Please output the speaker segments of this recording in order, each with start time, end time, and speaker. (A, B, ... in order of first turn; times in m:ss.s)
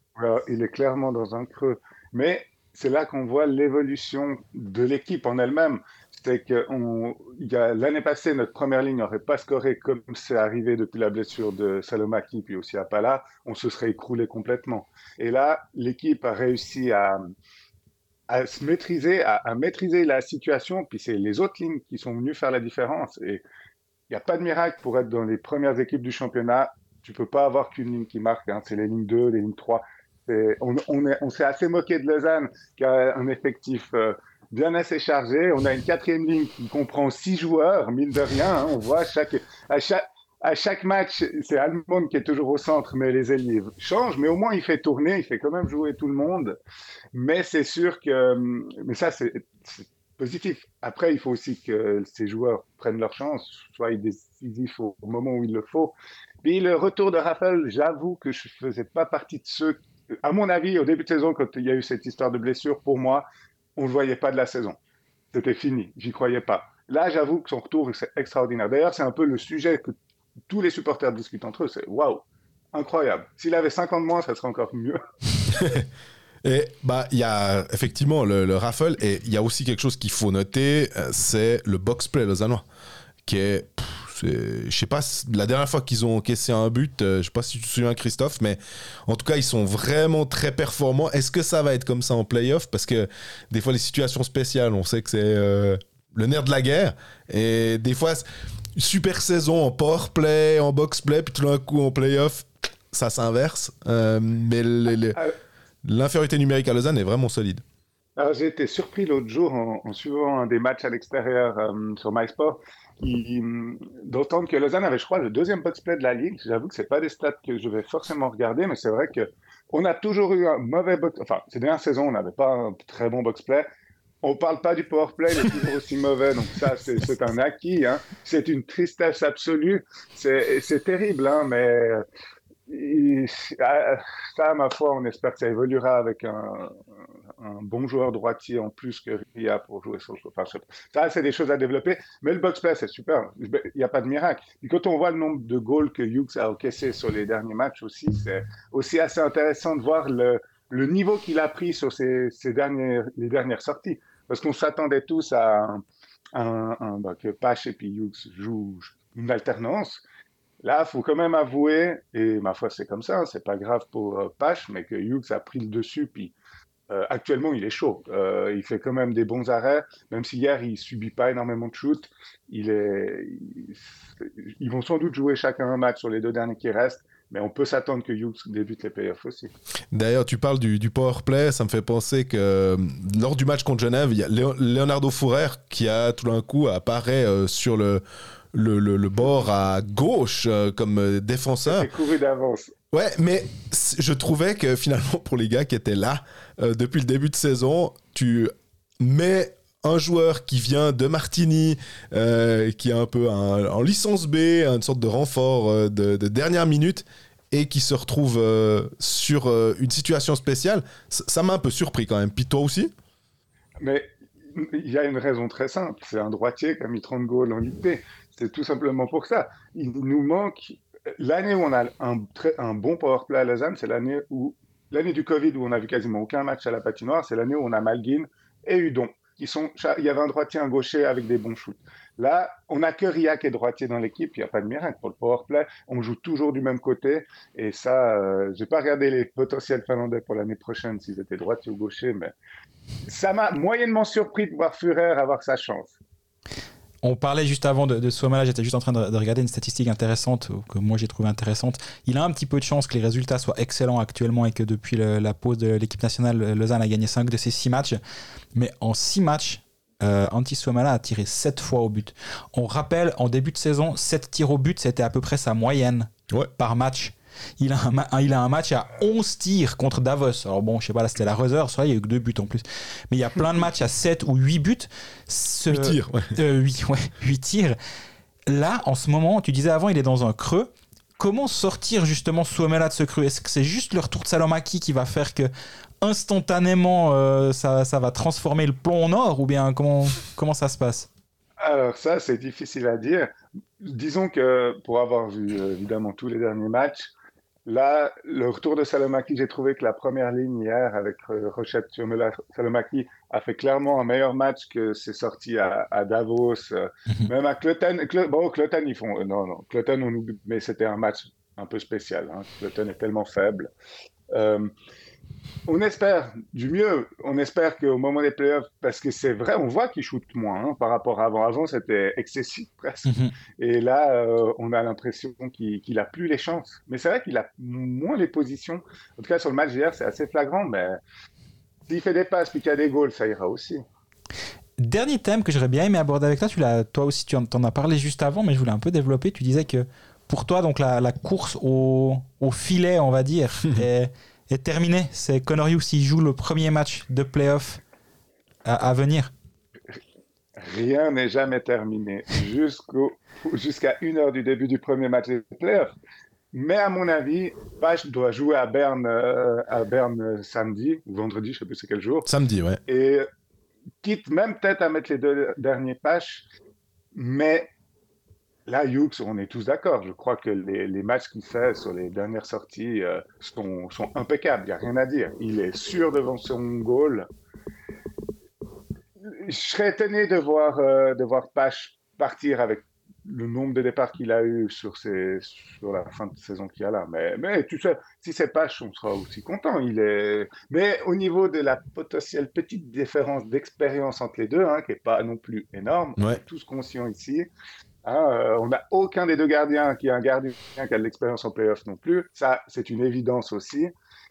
0:00.2-0:17.3 A
0:18.3-0:23.4 A
0:24.1-0:46.6 A
0:47.1-1:03.2 A
1:03.8-1:04.8 A
1:05.3-1:09.9 A
1:10.5-1:15.0 A
1:15.5-1:15.8 B
1:16.4-1:22.6 B
1:23.2-1:38.2 B
1:38.8-1:45.2 B
1:45.8-1:47.6 B
1:48.2-2:03.7 A
2:04.2-2:12.0 A
2:12.7-2:16.8 A
2:17.4-2:40.0 A
2:40.6-2:46.3 A
2:46.9-2:59.5 A
2:59.9-3:11.9 B
3:11.6-3:12.7 A
3:12.9-3:32.9 B
3:33.8-4:02.3 A
4:03.0-4:06.0 A
4:07.0-4:18.0 C
4:18.5-4:37.8 C
4:35.7-4:36.3 B
4:38.5-4:45.5 C
4:46.0-4:51.1 C
4:51.6-4:57.1 A
4:57.6-5:13.7 A
5:14.3-5:14.7 A
5:15.7-5:31.0 A
5:23.0-5:23.3 C
5:31.9-5:33.8 A
5:34.8-5:47.8 C
5:48.6-5:49.3 C
5:50.6-5:56.0 A
5:56.5-6:02.3 A
6:02.2-6:02.8 B
6:02.9-6:03.3 A
6:04.0-6:06.4 A
6:07.1-6:07.7 A
6:08.7-6:17.3 A
6:19.2-6:37.5 A
6:38.0-6:43.9 A